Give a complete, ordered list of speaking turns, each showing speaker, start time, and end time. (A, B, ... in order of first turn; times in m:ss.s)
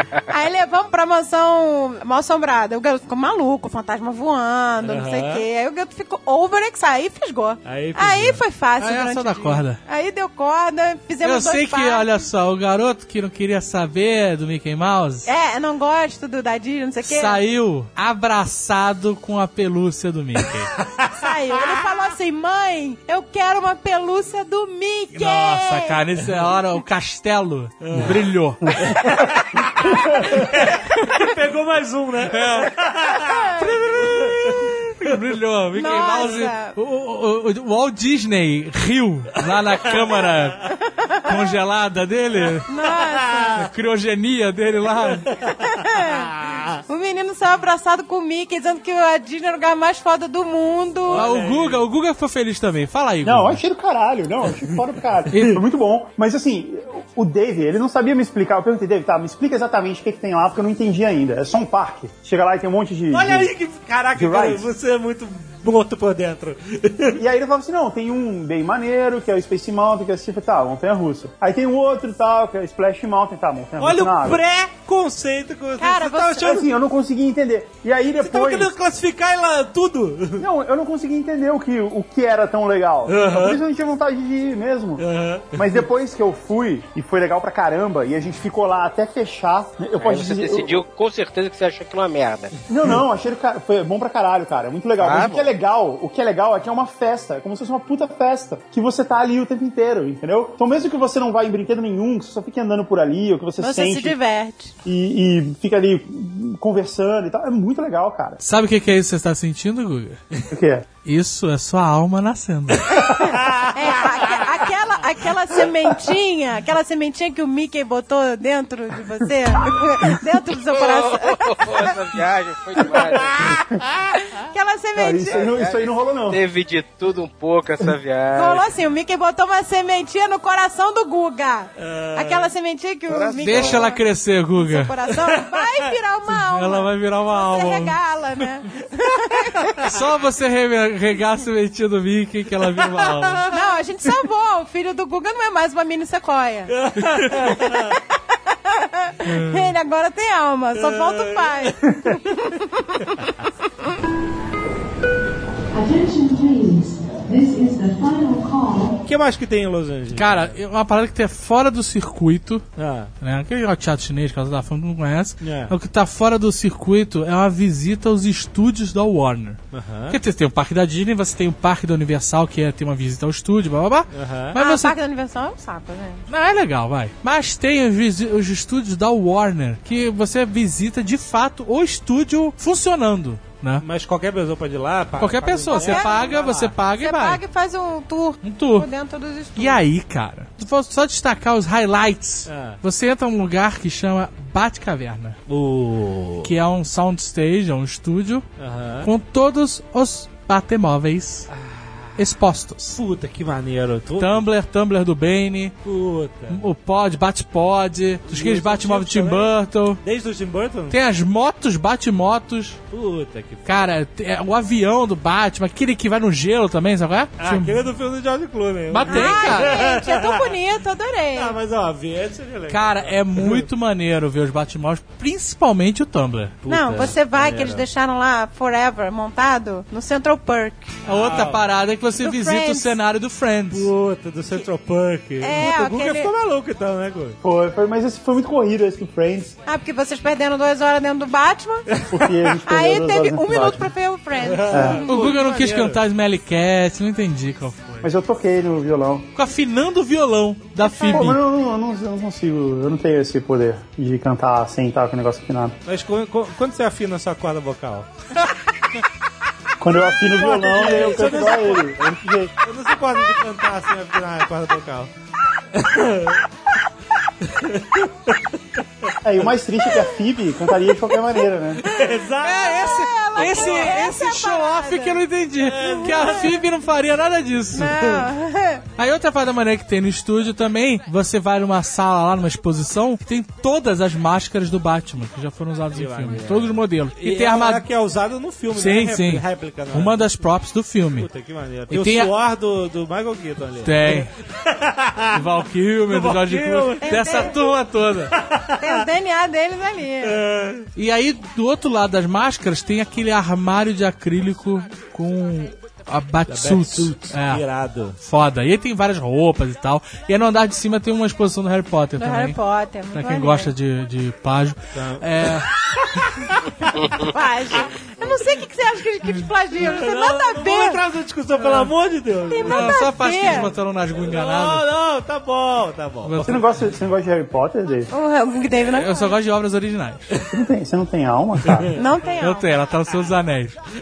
0:00.3-0:12.2 A
0:04.8-0:05.4 B
0:07.6-0:08.4 B
0:08.8-0:09.8 C
0:11.2-0:15.3 C
0:15.3-0:17.4 A
0:17.0-0:20.7 C
0:20.9-0:21.8 B
0:21.1-0:26.0 A
0:25.1-0:28.9 C
0:27.8-0:28.2 B
0:28.8-0:34.6 B
0:30.9-0:31.2 C
0:32.3-0:32.7 C
0:33.1-0:34.4 A
0:33.6-0:40.7 C
0:35.7-0:36.8 A
0:40.9-0:41.5 A
0:41.3-0:42.7 C
0:42.7-0:43.7 A
0:42.8-0:43.6 B
0:43.6-0:45.3 C
0:45.3-0:46.8 B
0:45.6-0:46.3 A
0:46.9-0:51.3 A
0:51.0-0:51.8 B
0:51.1-0:53.6 C
0:53.2-1:03.5 D
0:55.3-0:55.6 C
1:03.1-1:07.2 B
1:04.1-1:04.7 D
1:07.1-1:14.4 D
1:13.8-1:16.7 B
1:15.8-1:16.5 A
1:16.4-1:18.7 D
1:18.2-1:20.5 B
1:20.4-1:30.8 D
1:23.1-1:23.6 B
1:25.0-1:25.8 B
1:30.0-1:32.5 E
1:32.7-1:44.2 D
1:35.0-1:35.5 E
1:43.6-1:44.7 A
1:44.8-1:48.4 D
1:48.4-1:50.2 C
1:50.5-1:50.9 D
1:51.0-1:53.0 C
1:52.9-2:01.9 A
1:53.4-1:54.4 B
2:00.7-2:03.6 E
2:03.2-2:03.8 D
2:04.3-2:05.5 A
2:05.0-2:06.4 D
2:05.3-2:08.7 E
2:08.3-2:19.9 A
2:11.8-2:12.5 B
2:13.1-2:14.0 E
2:13.4-2:14.9 C
2:15.2-2:15.9 B
2:16.3-2:18.0 C
2:19.8-2:23.5 C
2:22.6-2:23.7 B
2:23.5-2:26.8 A
2:26.7-2:28.0 B
2:27.4-2:28.0 A
2:28.5-2:33.3 A
2:29.3-2:29.7 C
2:30.8-2:31.8 B
2:35.7-2:39.0 F
2:39.1-2:40.5 B
2:40.1-2:42.6 C
2:42.8-2:43.1 B
2:43.2-2:55.0 C
2:45.4-2:45.7 B
2:49.7-2:50.2 B
2:54.1-2:54.6 B
2:54.6-2:56.3 A
2:56.3-3:03.9 C
3:03.8-3:06.8 B
3:05.2-3:07.4 C
3:05.7-3:06.5 A
3:07.0-3:09.8 A
3:08.4-3:08.9 C
3:09.6-3:15.4 C
3:12.5-3:12.8 B
3:15.5-3:16.5 B
3:16.4-3:18.5 C
3:18.6-3:19.1 B
3:19.0-3:21.5 C
3:21.5-3:22.2 B
3:22.2-3:23.0 C
3:23.0-3:24.5 B
3:24.2-3:25.8 C
3:25.8-3:26.6 B
3:26.5-3:30.0 C
3:28.3-3:31.0 B
3:30.9-3:32.8 C
3:32.9-3:33.8 B
3:33.6-3:37.9 C
3:37.4-3:40.6 B
3:38.9-3:39.8 C
3:39.1-3:41.6 A
3:41.3-3:43.7 B
3:42.7-3:46.6 C
3:46.6-3:47.9 B
3:46.7-3:51.0 A
3:51.1-3:51.7 B
3:51.1-3:53.9 C
3:52.2-3:53.0 A
3:53.7-3:57.4 B
3:55.4-3:56.3 A
3:57.4-3:59.6 D
3:59.7-4:01.9 A
4:01.9-4:02.2 B
4:02.1-4:03.9 D
4:02.7-4:05.3 A
4:04.4-4:06.0 B
4:04.7-4:05.0 D
4:05.0-4:08.0 C
4:08.0-4:09.3 D
4:09.4-4:11.4 C
4:10.8-4:11.3 A
4:11.1-4:15.8 D
4:15.9-4:18.1 B
4:19.8-4:22.5 D
4:20.3-4:25.1 B
4:25.7-4:26.4 B
4:27.4-4:28.5 B
4:29.2-4:31.8 D
4:31.8-4:34.0 B
4:31.9-4:35.2 A
4:32.4-4:38.0 C
4:35.6-4:36.5 B
4:36.0-4:36.5 A
4:37.7-4:38.8 A
4:38.0-4:38.3 B
4:39.0-4:47.9 C
4:45.9-4:50.4 B
4:48.8-4:51.3 C
4:51.2-4:55.4 B
4:51.9-4:52.3 C
4:53.8-4:54.3 C
4:55.3-4:58.4 C
4:56.1-4:57.5 B
4:57.0-4:57.7 A
4:58.4-4:59.0 B
4:58.8-5:00.4 A
5:00.2-5:00.9 B
5:01.0-5:07.6 C
5:06.5-5:08.2 B
5:08.2-5:12.6 C
5:12.2-5:13.7 A
5:13.1-5:15.7 C
5:14.9-5:17.1 B
5:17.1-5:21.0 A
5:19.8-5:26.5 B
5:22.5-5:23.7 A
5:22.6-5:24.9 C
5:26.2-5:26.7 C
5:26.4-5:28.1 D
5:28.1-5:29.4 A
5:28.9-5:30.3 C
5:30.5-5:32.0 D
5:31.7-5:31.9 B
5:31.9-5:32.7 A
5:32.4-5:33.8 C